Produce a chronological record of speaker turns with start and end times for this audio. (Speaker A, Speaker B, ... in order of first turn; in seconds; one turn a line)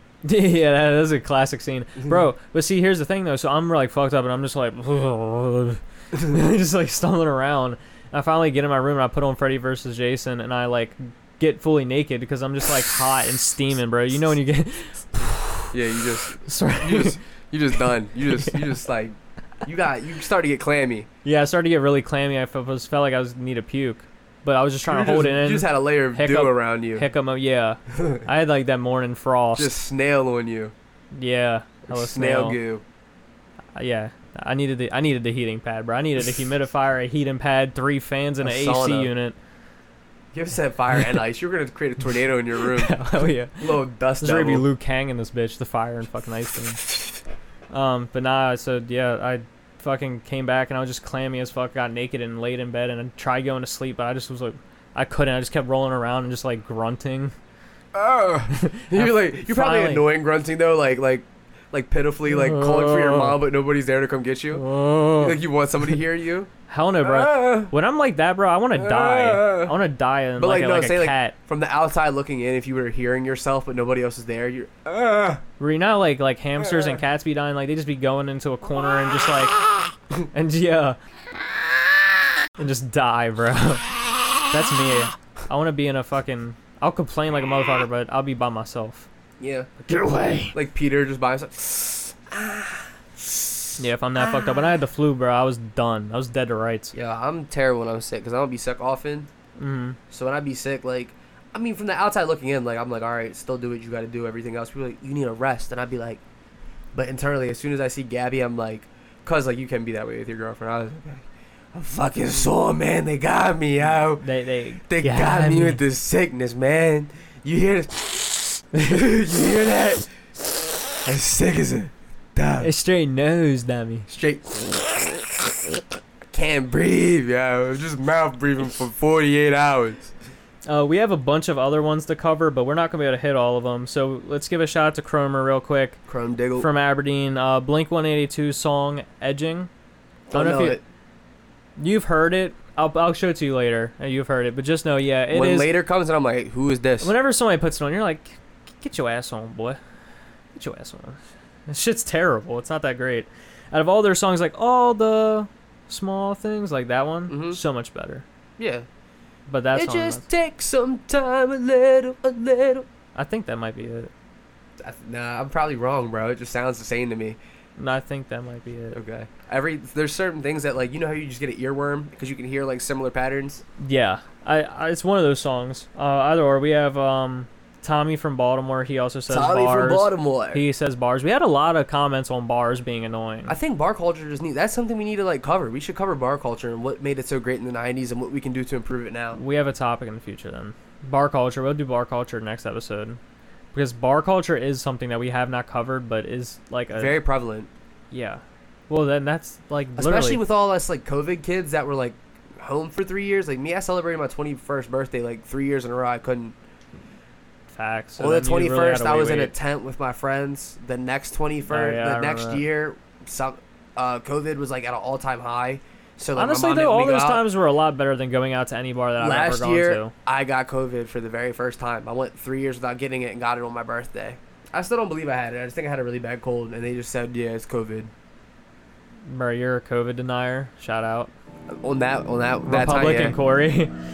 Speaker A: 0.2-15.7
Speaker B: 15.7-21.1
Speaker A: 16.4-17.2
Speaker A: 18.3-18.8
Speaker A: 21.2-29.7
Speaker B: 24.9-27.1
Speaker B: 28.0-28.2
Speaker B: 29.6-30.7
Speaker A: 31.1-32.6
Speaker B: 31.9-32.8
Speaker A: 33.8-39.4
Speaker B: 38.4-39.1
Speaker B: 40.3-44.6
Speaker A: 42.7-46.9
Speaker A: 47.7-57.3
Speaker B: 57.9-64.6
Speaker A: 58.5-60.1
Speaker A: 62.3-63.4
Speaker A: 64.5-65.4
Speaker B: 65.2-66.5
Speaker A: 66.7-71.3
Speaker B: 67.0-67.7
Speaker B: 68.7-69.7
Speaker B: 70.4-75.4
Speaker A: 75.6-79.6
Speaker B: 76.6-76.9
Speaker A: 80.3-81.0
Speaker A: 82.6-83.8
Speaker A: 84.5-89.1
Speaker B: 89.4-92.9
Speaker A: 89.9-90.5
Speaker A: 93.8-96.9
Speaker B: 94.2-94.5
Speaker B: 96.9-99.3
Speaker A: 99.6-100.0
Speaker B: 100.1-106.2
Speaker B: 106.9-114.2
Speaker A: 114.2-115.8
Speaker B: 114.9-120.1
Speaker B: 121.0-122.7
Speaker A: 122.6-124.1
Speaker B: 124.1-125.4
Speaker B: 126.3-130.1
Speaker A: 130.7-136.0
Speaker B: 136.1-136.7
Speaker A: 136.6-139.7
Speaker B: 140.3-140.8
Speaker A: 140.3-140.8
Speaker A: 141.8-145.7
Speaker B: 145.3-147.1
Speaker A: 147.0-149.8
Speaker A: 150.5-158.2
Speaker B: 157.3-157.6
Speaker B: 158.6-158.8
Speaker A: 159.5-160.2
Speaker B: 159.7-162.8
Speaker A: 163.1-164.1
Speaker B: 164.8-167.4
Speaker A: 167.8-169.0
Speaker B: 168.9-173.6
Speaker A: 173.8-183.5
Speaker B: 179.3-180.6
Speaker B: 183.5-189.4
Speaker A: 189.3-193.2
Speaker A: 193.7-197.2
Speaker B: 196.9-197.7
Speaker A: 198.1-200.4
Speaker B: 200.0-206.5
Speaker A: 207.7-209.5
Speaker B: 208.2-217.4
Speaker A: 211.7-212.6
Speaker A: 216.3-220.1
Speaker B: 219.2-228.1
Speaker A: 229.3-231.3
Speaker B: 231.7-233.3
Speaker A: 232.6-233.9